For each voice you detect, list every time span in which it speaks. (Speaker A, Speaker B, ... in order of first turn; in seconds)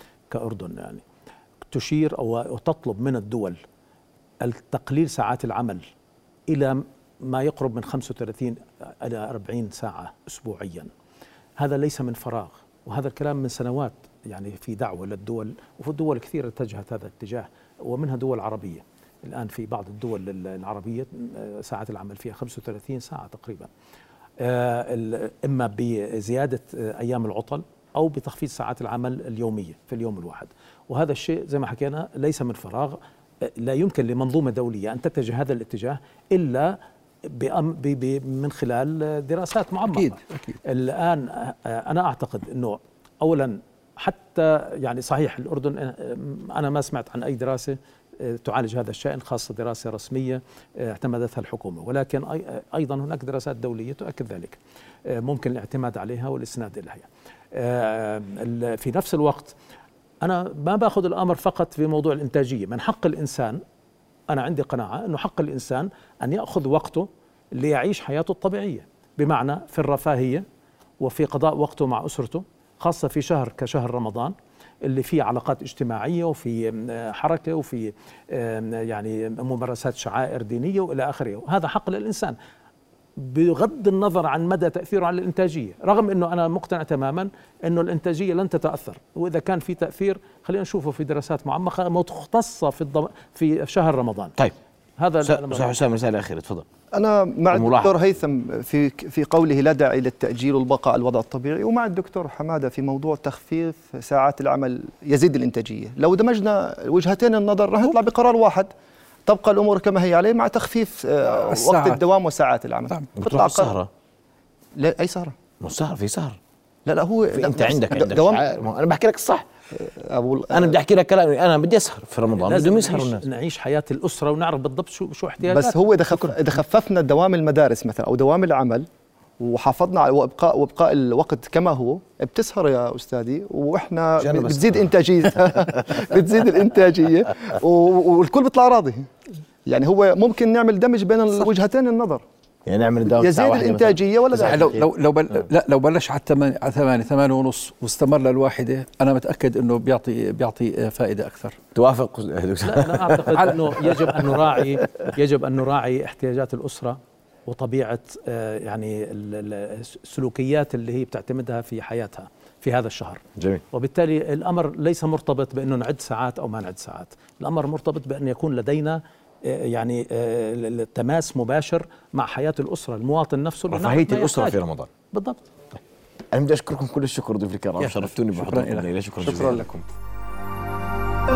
Speaker A: 0.3-1.0, 1.7-3.6, 4.4-5.8, 6.5-10.9, 11.6-23.7, 24.4-59.5, 60.2-63.6, 64.3-70.4, 71.0-82.3, 83.2-94.3, 95.0-95.8, 122.4-125.8, 152.6-174.6, 175.1-175.4
Speaker B: 39.9-40.6, 111.4-112.0, 144.4-151.6, 177.8-179.8
Speaker C: 95.2-96.7, 97.5-98.0, 113.2-113.9, 115.6-116.4, 117.3-119.4, 120.5-123.2, 134.2-134.9, 142.7-144.9, 151.7-154.6, 163.4-163.6, 173.7-174.9, 176.3-179.8
Speaker D: 96.9-108.7, 109.3-113.7, 114.7-115.3, 116.8-118.4, 119.8-120.8, 125.4-128.9, 129.4-139.1, 139.7-142.2, 143.2-144.8